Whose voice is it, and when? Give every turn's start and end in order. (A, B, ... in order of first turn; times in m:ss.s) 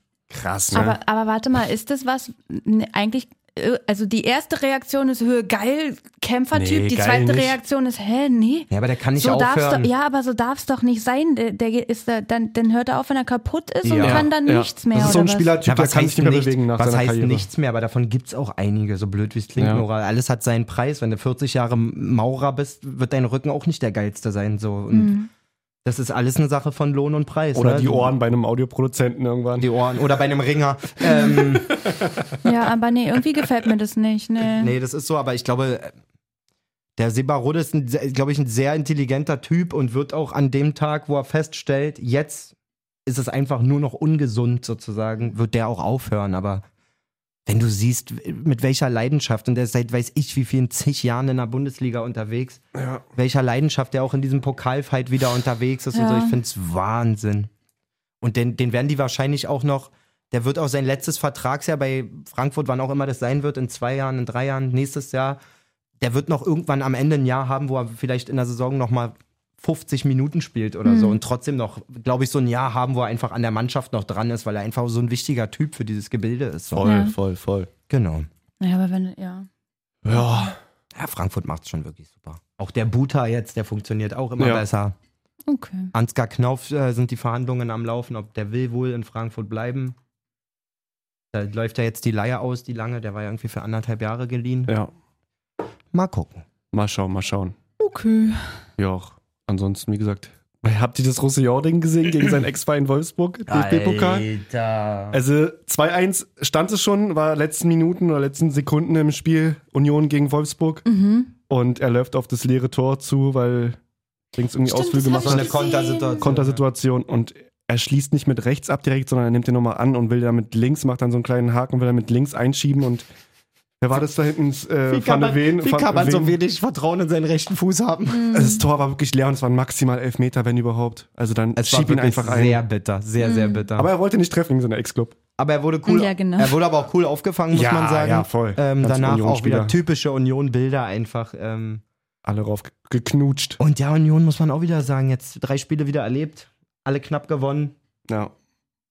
0:00.3-0:01.0 A
0:00.7-0:15.6 B
0:06.5-0:07.6 A
0:08.7-0:09.9 C
0:13.8-0:14.3 C
0:14.0-0:17.4 A
0:15.6-0:25.2 C
0:19.6-0:19.8 A
0:24.9-0:25.3 B
0:25.8-0:28.1 C
0:27.5-0:29.7 A
0:29.6-0:32.1 C
0:31.0-0:31.4 B
0:32.4-0:34.7 B
0:34.4-0:35.9 C
0:37.0-0:42.5 C
0:43.0-0:46.6 C
0:47.4-0:52.6 C
0:52.7-0:53.0 A
0:53.1-0:57.5 C
0:55.9-0:56.4 B
0:58.2-1:05.4 C
1:06.0-1:16.9 C
1:10.8-1:11.2 B
1:16.7-1:17.7 A
1:16.8-1:17.1 B
1:17.9-1:18.3 C
1:18.6-1:19.5 B
1:20.0-1:20.5 A
1:20.1-1:20.5 B
1:20.9-1:25.0 C
1:25.5-1:25.9 B
1:25.9-1:30.0 C
1:31.3-1:34.7 C
1:35.9-1:36.4 C
1:36.7-1:37.5 A
1:37.8-1:38.5 B
1:38.8-1:44.3 A
1:43.5-1:45.2 C
1:45.1-1:50.8 A
1:50.8-1:51.3 B
1:51.5-1:53.8 A
1:54.3-1:55.6 A
1:54.6-1:56.3 B
1:55.2-1:56.6 C
1:56.2-2:03.0 A
2:03.8-2:06.4 A
2:04.9-2:08.5 C
2:08.1-2:08.6 B
2:08.3-2:12.6 A
2:11.6-2:13.9 C
2:13.2-2:13.6 B
2:13.8-2:15.1 A
2:15.4-2:21.8 C
2:15.8-2:16.6 B
2:17.5-2:19.7 A
2:22.2-2:23.6 A
2:23.6-2:27.7 C